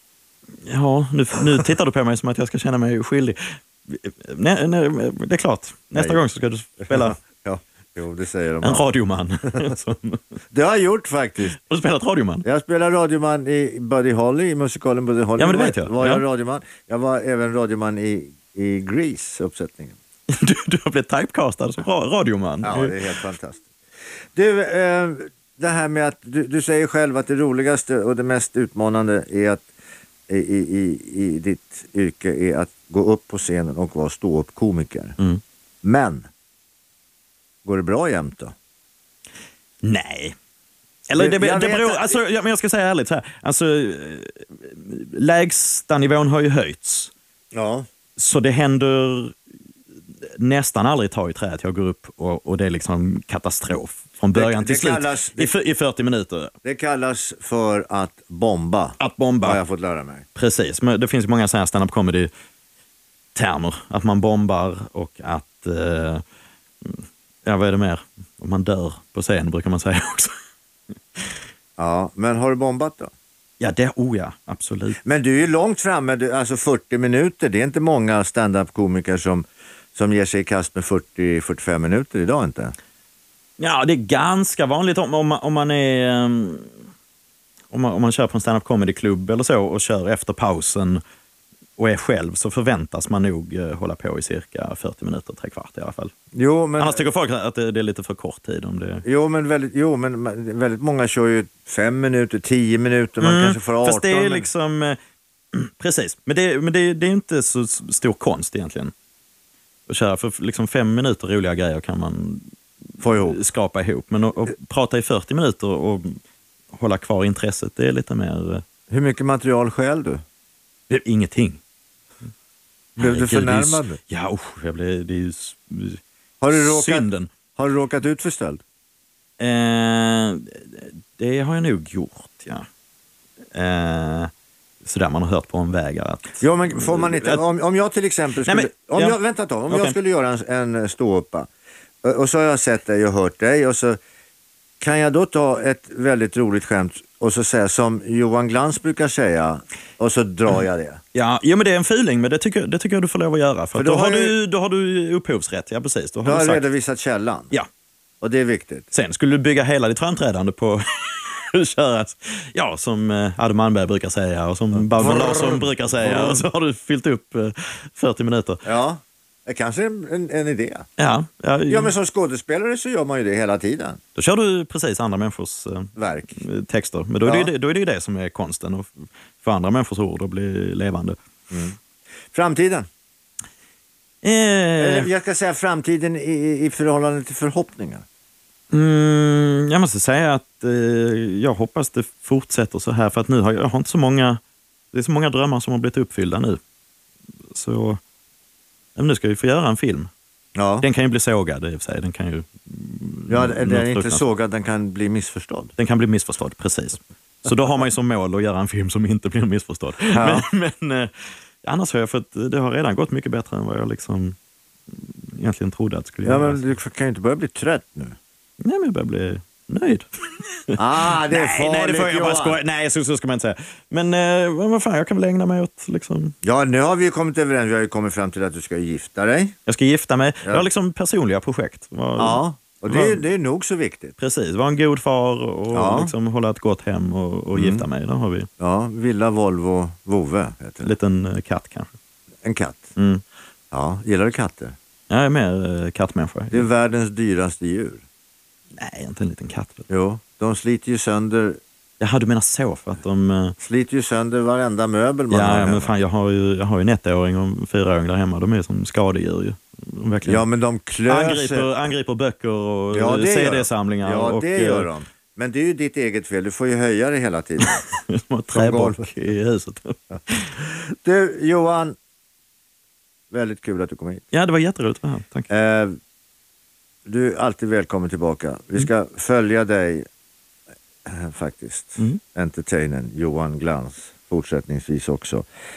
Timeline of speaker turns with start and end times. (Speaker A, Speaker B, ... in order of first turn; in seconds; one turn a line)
Speaker A: 0.6-7.2
Speaker B: 5.9-6.2
Speaker B: 6.8-8.8
Speaker A: 8.6-10.2
Speaker B: 10.5-11.6
Speaker A: 11.5-12.4
Speaker B: 12.4-20.0
Speaker A: 15.4-16.2
Speaker A: 20.3-23.0
Speaker B: 22.6-23.7
Speaker B: 24.4-29.7
Speaker B: 30.3-35.2
Speaker B: 35.8-36.3
Speaker B: 37.6-38.5
Speaker A: 39.8-40.4
Speaker A: 41.1-47.1
Speaker B: 41.2-42.2
Speaker B: 47.5-47.9
Speaker A: 48.2-49.4
Speaker A: 50.2-56.5
Speaker B: 54.3-55.5
Speaker B: 56.6-60.2
Speaker A: 59.0-59.6
Speaker A: 60.4-62.3
Speaker A: 63.4-66.2
Speaker A: 66.8-70.3
Speaker B: 71.8-73.1
Speaker A: 73.6-75.0
Speaker B: 75.0-82.7
Speaker A: 83.6-86.7
Speaker A: 87.7-91.0
Speaker A: 91.8-96.1
Speaker B: 96.3-97.0
Speaker A: 96.8-99.0
Speaker B: 99.0-104.5
Speaker A: 103.2-105.0
Speaker A: 105.5-108.9
Speaker A: 109.9-112.5
Speaker B: 113.0-113.4
Speaker A: 113.2-116.2
Speaker A: 116.7-118.6
Speaker B: 118.9-120.2
Speaker A: 120.9-121.6
Speaker A: 123.0-126.0
Speaker B: 123.0-124.0
Speaker B: 126.4-128.6
Speaker A: 126.5-127.3
Speaker A: 129.4-132.7
Speaker A: 133.5-134.3
Speaker A: 134.8-137.4
Speaker B: 136.4-141.5
Speaker A: 138.5-139.2
Speaker A: 139.7-140.0
Speaker B: 142.0-144.0
Speaker B: 144.8-151.0
Speaker A: 151.1-156.6
Speaker B: 153.8-154.4
Speaker B: 156.2-157.5
Speaker B: 158.2-158.9
Speaker A: 158.9-168.6
Speaker B: 164.7-166.4
Speaker B: 168.7-170.9
Speaker A: 171.0-171.9
Speaker B: 171.7-174.0
Speaker A: 174.2-181.2
Speaker B: 176.0-176.4
Speaker B: 177.2-177.5
Speaker B: 181.5-181.8
Speaker B: 182.3-182.9
Speaker A: 184.2-185.1
Speaker B: 184.8-188.1
Speaker A: 188.7-194.4
Speaker A: 194.9-196.6
Speaker A: 197.5-198.0
Speaker A: 199.0-200.1
Speaker B: 200.6-200.9
Speaker A: 200.8-204.2
Speaker B: 203.3-205.7
Speaker A: 205.8-211.1
Speaker B: 210.1-210.4
Speaker A: 211.6-214.4
Speaker A: 214.9-216.7
Speaker B: 216.2-218.2
Speaker A: 218.6-226.4
Speaker B: 220.8-222.6
Speaker B: 226.4-229.6
Speaker A: 229.7-233.2
Speaker B: 232.2-234.2
Speaker A: 234.2-238.5
Speaker B: 235.7-236.1
Speaker B: 237.5-237.9
Speaker B: 238.6-240.9
Speaker A: 240.8-241.9
Speaker B: 242.4-242.9
Speaker A: 243.0-243.2
Speaker B: 243.7-244.8
Speaker A: 245.1-246.7
Speaker B: 246.5-248.0
Speaker A: 248.8-249.9
Speaker B: 249.9-251.6
Speaker A: 252.0-253.6
Speaker B: 253.6-255.9
Speaker A: 255.3-260.4
Speaker B: 260.3-261.7
Speaker A: 261.1-264.9
Speaker B: 262.9-267.9
Speaker A: 267.7-270.5
Speaker B: 268.5-269.1
Speaker B: 270.1-272.0
Speaker B: 273.3-274.2
Speaker A: 274.3-275.5
Speaker B: 275.5-276.0
Speaker B: 277.1-280.1
Speaker B: 281.1-285.4